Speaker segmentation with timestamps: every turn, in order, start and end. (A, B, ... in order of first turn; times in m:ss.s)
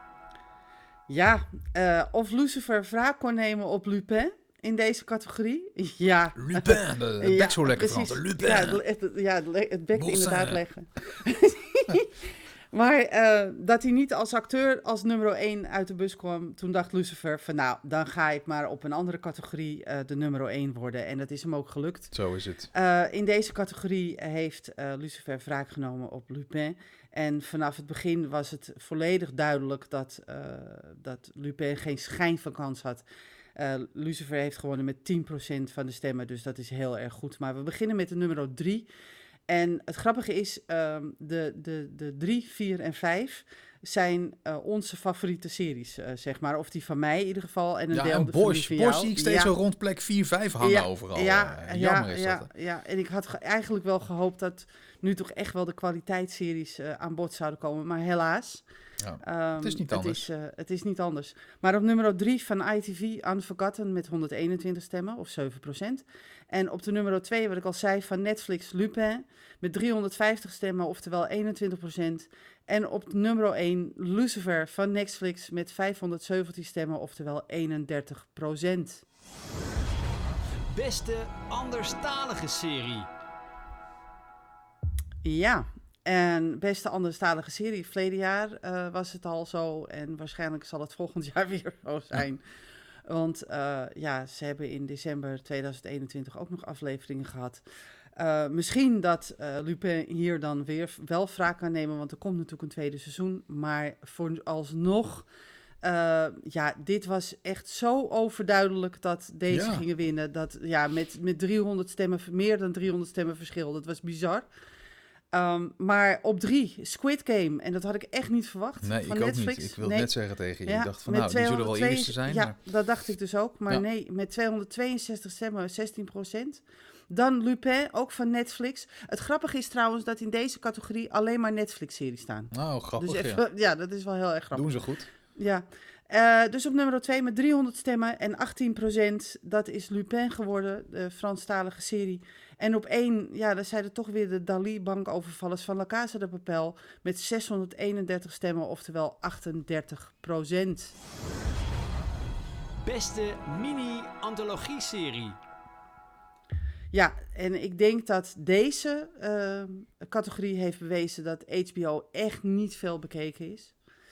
0:01.1-0:22.1 A
0:06.4-0:08.8 B
0:09.9-0:10.6 B
0:22.1-0:22.7 B
0:22.7-0:33.0 A
0:33.6-0:38.9 A
0:39.5-0:49.5 A
0:47.9-0:52.5 B
0:50.6-0:58.6 A
0:59.0-1:00.2 B
0:59.2-1:19.0 A
1:20.7-1:23.1 C
1:25.2-1:32.4 A
1:33.1-1:37.6 A
1:38.2-1:45.3 A
1:45.8-1:54.4 A
1:49.5-1:49.8 B
1:55.3-2:00.1 A
1:58.8-2:02.5 B
2:00.6-2:14.7 A
2:12.5-2:13.4 B
2:14.5-2:15.1 B
2:15.3-2:31.0 A
2:32.8-2:35.4 C
2:36.9-2:43.7 A